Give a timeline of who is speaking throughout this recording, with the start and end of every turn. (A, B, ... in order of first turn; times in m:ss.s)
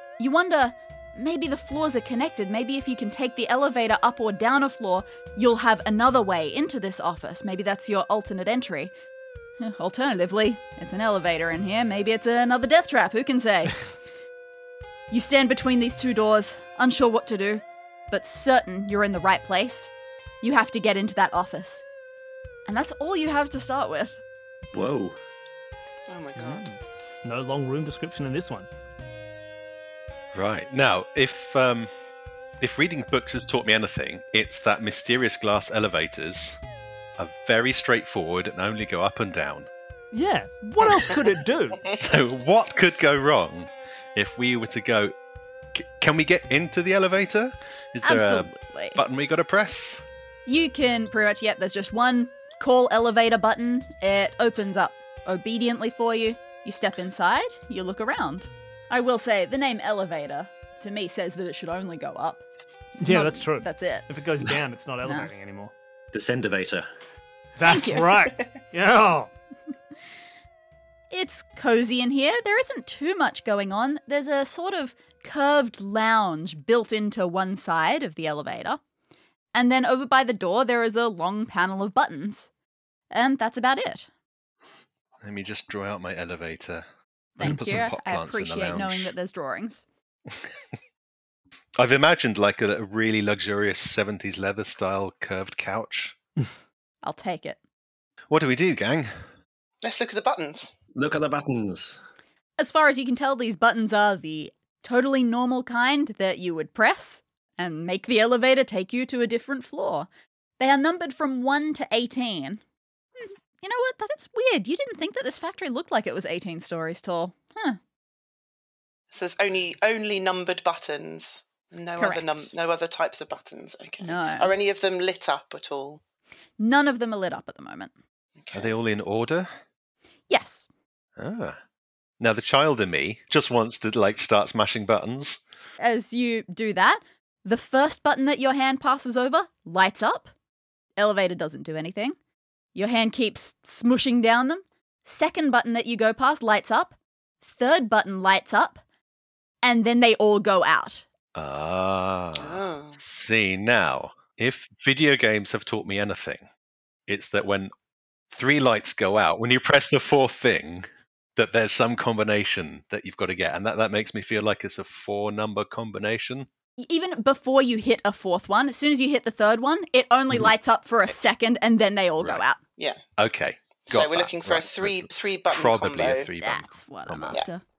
0:00.2-0:08.9 A
0:09.6-0:13.8 A
0:15.1-0:19.9 A
0:20.4-0:21.8 A
0:22.7-0:24.2 A
0:24.7-0:25.2 B
0:26.1-0:26.7 C
0:26.4-0:28.7 D
0:30.3-0:31.9 E
0:32.6-0:36.6 E
0:37.2-0:39.7 E
0:40.1-0:41.8 D
0:41.8-0:45.1 E
0:45.7-0:50.0 E
0:48.0-0:49.0 A
0:50.5-1:02.4 A
1:03.0-1:05.7 D
1:03.1-1:04.1 A
1:05.0-1:05.3 A
1:06.1-1:06.9 B
1:07.6-1:09.3 D
1:07.7-1:08.1 A
1:11.1-1:18.8 A
1:19.5-1:22.5 A
1:23.1-1:24.1 A
1:25.2-1:26.8 E
1:27.4-1:29.8 A
1:27.4-1:29.1 E
1:31.8-1:36.2 E
1:37.0-1:37.6 A
1:38.3-1:39.2 E
1:39.8-1:40.7 C
1:41.0-1:42.0 B
1:42.6-1:50.1 A
1:50.6-1:52.6 A
1:53.2-1:57.8 A
1:59.1-2:06.0 C
2:02.0-2:02.5 A
2:04.0-2:04.5 A
2:06.6-2:07.9 A
2:08.4-2:08.7 C
2:08.5-2:09.5 E
2:10.3-2:10.7 A
2:11.2-2:11.6 E
2:12.2-2:15.4 E
2:15.8-2:20.3 A
2:21.0-2:22.2 A
2:22.8-2:28.8 A
2:29.6-2:31.0 A
2:31.4-2:36.5 E
2:32.4-2:33.0 C
2:37.1-2:37.7 E
2:38.3-2:46.5 E
2:46.8-2:52.6 A
2:52.2-2:52.4 E
2:52.8-2:53.0 C
2:53.2-2:57.4 E
2:53.8-2:56.3 C
2:56.4-2:57.6 A